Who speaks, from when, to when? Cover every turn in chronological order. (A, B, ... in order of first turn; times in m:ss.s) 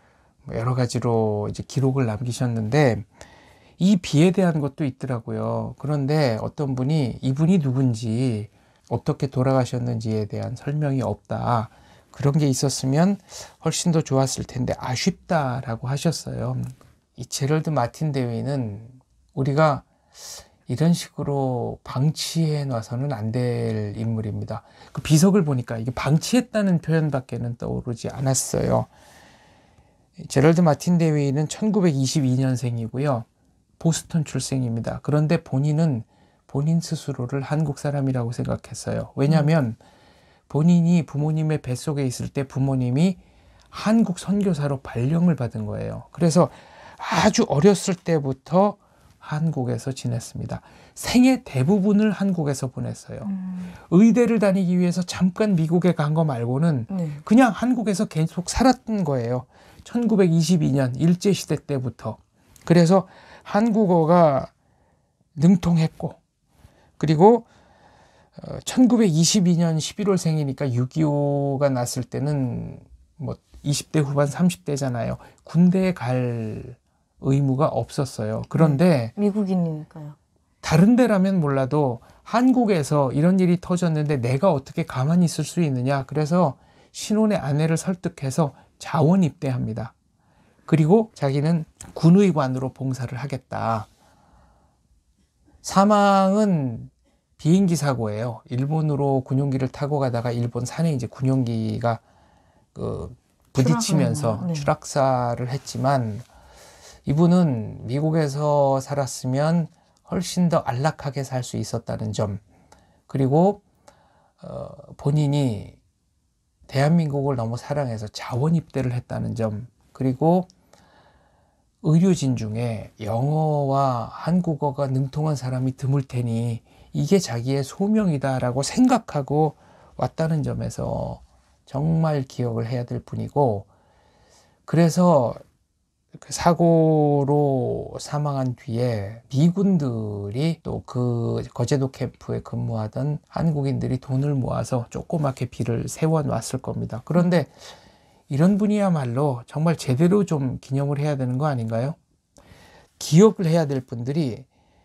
0:00.4-0:03.1 A
0:03.8-0:28.9 A
0:30.2-0:33.2 A
0:33.8-0:39.8 A
0:40.5-0:43.2 A
0:43.7-1:04.5 A
0:53.2-0:53.8 B
0:56.9-0:57.2 B
1:05.3-1:06.2 A
1:07.0-1:07.5 A
1:08.4-1:19.1 A
1:18.5-1:20.2 B
1:20.6-1:29.9 A
1:30.7-1:33.9 A
1:35.6-1:42.0 A
1:42.7-1:46.2 A
1:43.6-1:44.7 B
1:47.0-1:52.4 A
1:53.1-1:53.6 A
1:54.4-1:55.8 A
1:56.7-2:00.5 A
2:01.8-2:13.7 A
2:14.7-2:15.4 A
2:16.1-2:27.6 A
2:28.3-2:32.0 A
2:33.0-2:34.4 A